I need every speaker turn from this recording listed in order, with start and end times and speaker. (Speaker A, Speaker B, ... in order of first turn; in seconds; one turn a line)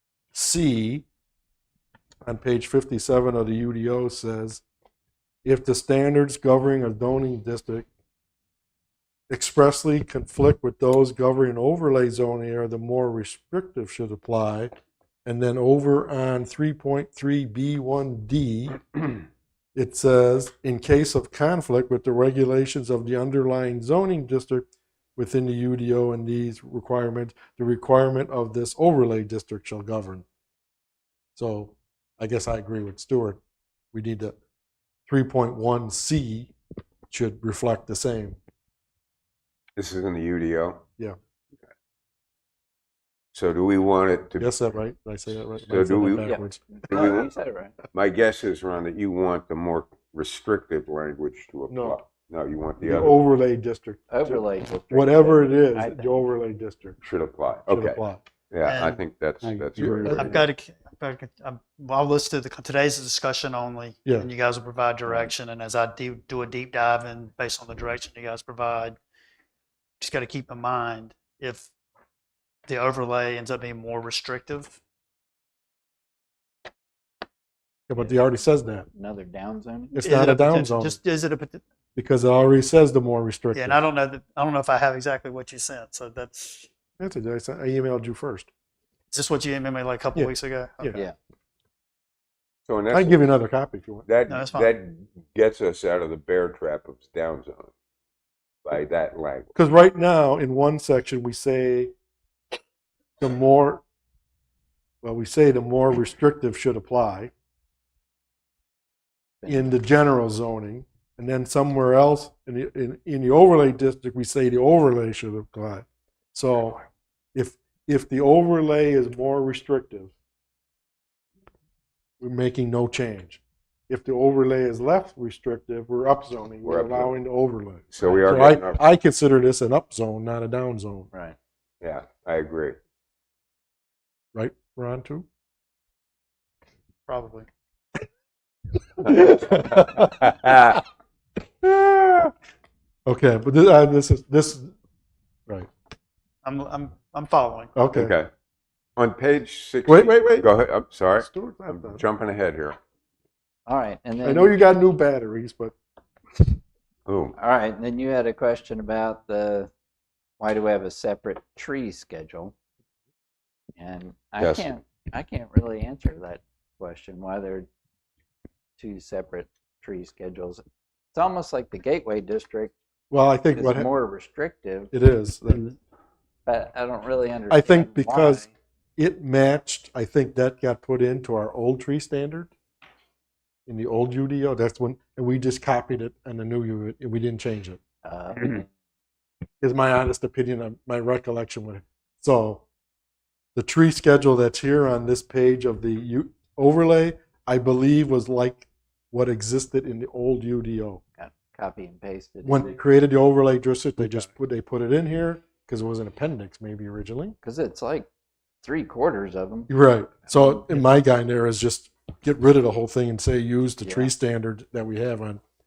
Speaker A: 0.3-1.1
Speaker A: 2.2-4.6
Speaker A: 5.5-7.9
Speaker A: 9.3-14.7
Speaker A: 15.2-18.9
Speaker A: 19.8-30.2
Speaker A: 31.4-33.4
Speaker A: 33.9-34.4
Speaker A: 35.1-36.5
Speaker A: 37.1-38.4
Speaker B: 39.8-40.8
Speaker B: 43.3-44.5
Speaker A: 44.4-46.6
Speaker B: 45.7-46.3
Speaker C: 46.2-47.8
Speaker B: 46.9-47.3
Speaker B: 47.9-53.2
Speaker A: 51.7-52.0
Speaker A: 52.8-57.0
Speaker C: 54.1-56.3
Speaker B: 57.0-60.5
Speaker A: 57.7-58.2
Speaker D: 58.6-69.0
Speaker A: 59.8-60.4
Speaker A: 64.1-64.3
Speaker C: 65.1-65.3
Speaker D: 70.0-71.7
Speaker D: 72.7-74.8
Speaker A: 77.9-78.9
Speaker C: 78.0-78.4
Speaker C: 78.9-80.0
Speaker A: 80.0-81.0
Speaker D: 80.0-81.6
Speaker A: 82.0-83.9
Speaker D: 83.5-86.7
Speaker A: 87.0-88.5
Speaker D: 89.1-90.9
Speaker A: 90.2-91.0
Speaker B: 92.7-93.3
Speaker A: 92.9-94.1
Speaker B: 94.1-97.7
Speaker D: 94.3-94.7
Speaker B: 98.7-99.5
Speaker A: 99.6-101.9
Speaker A: 103.2-103.8
Speaker A: 105.0-107.3
Speaker C: 109.4-109.7
Speaker A: 109.5-116.8
Speaker A: 117.3-120.1
Speaker A: 122.2-131.1
Speaker B: 126.6-127.2
Speaker B: 127.9-128.8
Speaker C: 128.0-128.6
Speaker C: 131.1-131.4
Speaker B: 131.8-132.8
Speaker A: 134.3-135.3
Speaker D: 137.1-137.5
Speaker A: 139.0-140.8
Speaker B: 139.2-140.8
Speaker A: 141.7-142.1
Speaker A: 143.1-144.7
Speaker D: 146.4-147.8
Speaker A: 147.8-148.1
Speaker B: 147.9-148.3
Speaker B: 149.0-152.8
Speaker A: 149.9-150.5
Speaker A: 151.2-152.0
Speaker C: 153.7-154.6
Speaker A: 154.2-155.7
Speaker B: 157.1-157.3
Speaker C: 157.4-159.7
Speaker C: 160.4-162.5
Speaker C: 163.8-167.7
Speaker B: 164.4-164.7
Speaker C: 168.8-170.6
Speaker C: 171.1-172.7
Speaker A: 173.1-173.9
Speaker C: 173.5-174.9
Speaker A: 174.9-175.6
Speaker D: 175.5-175.8
Speaker C: 176.4-178.5
Speaker A: 177.5-178.5
Speaker A: 179.0-182.5
Speaker A: 183.7-187.8
Speaker C: 188.0-188.7
Speaker A: 189.6-192.7
Speaker A: 193.6-201.0
Speaker C: 201.2-202.8
Speaker A: 202.4-207.4
Speaker C: 204.0-204.3
Speaker C: 207.4-208.1
Speaker C: 208.6-209.7
Speaker A: 209.7-215.4
Speaker C: 210.3-210.9
Speaker C: 213.8-214.1